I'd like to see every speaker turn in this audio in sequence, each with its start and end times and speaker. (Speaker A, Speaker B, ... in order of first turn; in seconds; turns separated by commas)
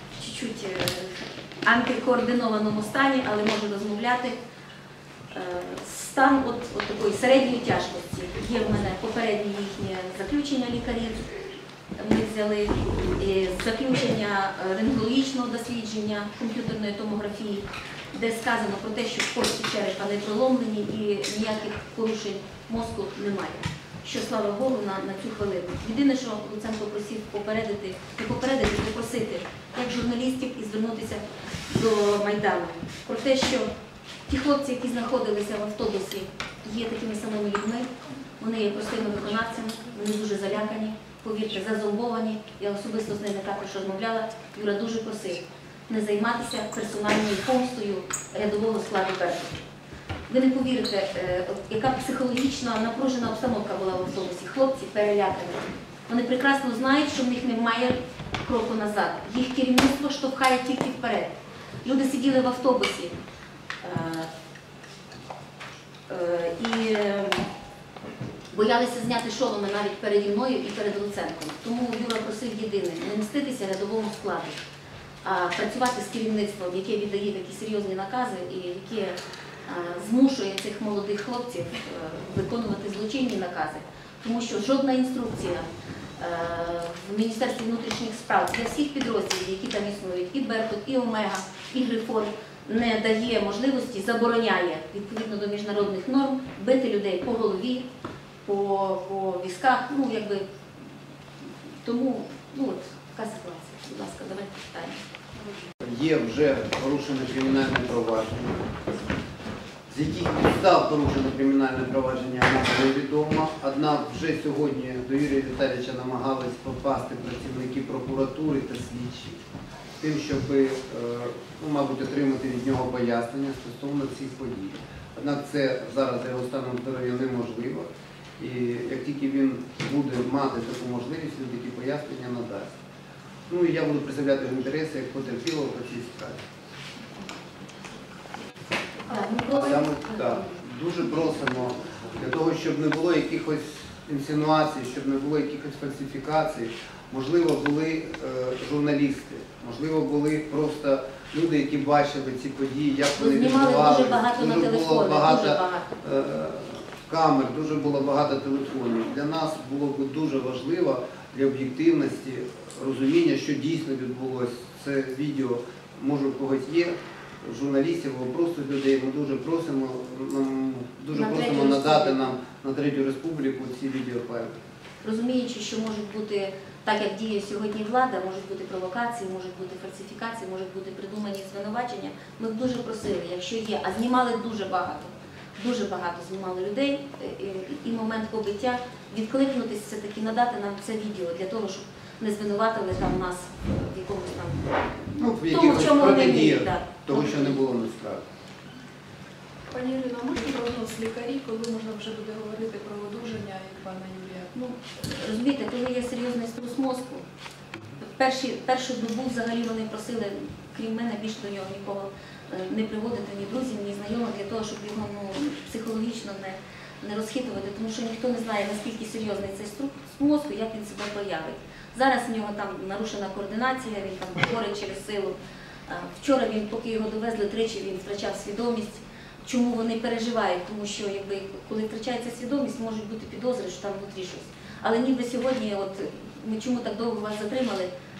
Speaker A: 0.2-4.4, Speaker A: 5.3-11.2, Speaker A: 12.0-33.7, Speaker A: 34.3-37.9, Speaker A: 38.4-49.6, Speaker A: 50.3-61.3, Speaker A: 61.8-63.1, Speaker A: 63.8-64.3, Speaker A: 66.1-67.4, Speaker A: 68.5-74.6, Speaker A: 75.2-97.8, Speaker A: 98.4-100.4, Speaker A: 101.8-105.0, Speaker B: 105.8-108.8, Speaker B: 109.9-119.4, Speaker B: 120.0-127.9, Speaker B: 128.4-132.8, Speaker B: 133.5-136.4, Speaker A: 139.0-140.6, Speaker B: 139.4-174.5, Speaker A: 153.2-155.9, Speaker A: 171.1-172.3, Speaker A: 175.0-194.8, Speaker B: 195.2-198.2, Speaker A: 195.4-197.6, Speaker C: 199.7-204.5, Speaker A: 204.5-207.2, Speaker A: 208.0-225.3, Speaker A: 225.9-237.9